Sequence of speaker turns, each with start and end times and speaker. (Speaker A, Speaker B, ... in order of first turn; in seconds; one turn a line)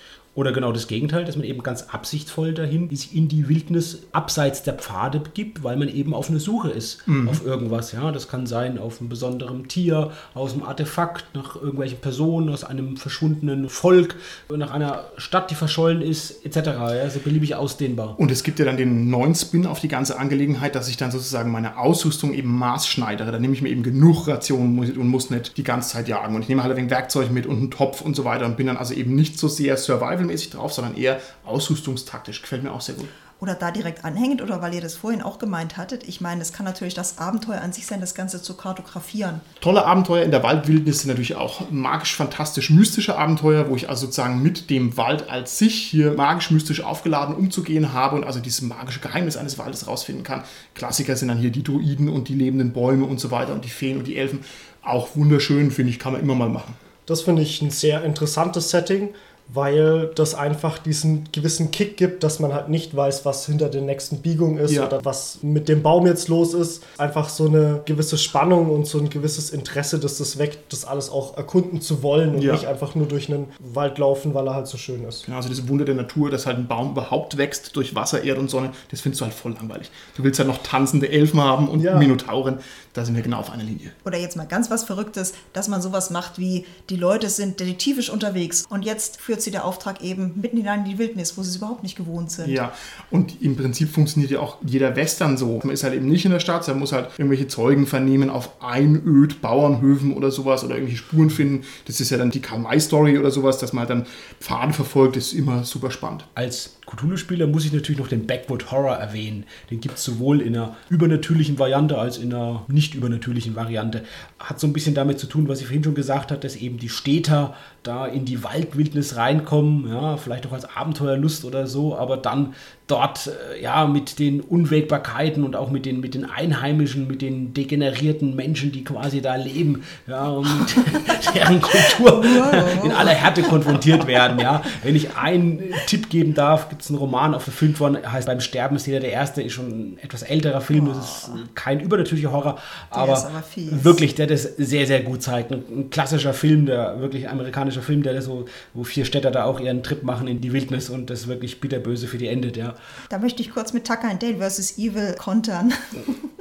Speaker A: 0.3-18.2
Speaker B: 7.1-7.4
Speaker B: 18.2-33.1
Speaker C: 33.4-39.4
Speaker B: 39.6-56.8
Speaker D: 57.1-75.3
Speaker B: 72.3-72.6
Speaker B: 75.3-84.0
Speaker D: 81.8-82.1
Speaker C: 84.0-92.6
Speaker B: 92.4-106.3
Speaker A: 106.4-152.8
Speaker C: 132.2-133.7
Speaker C: 140.7-141.4
Speaker C: 142.9-144.0
Speaker C: 153.1-156.2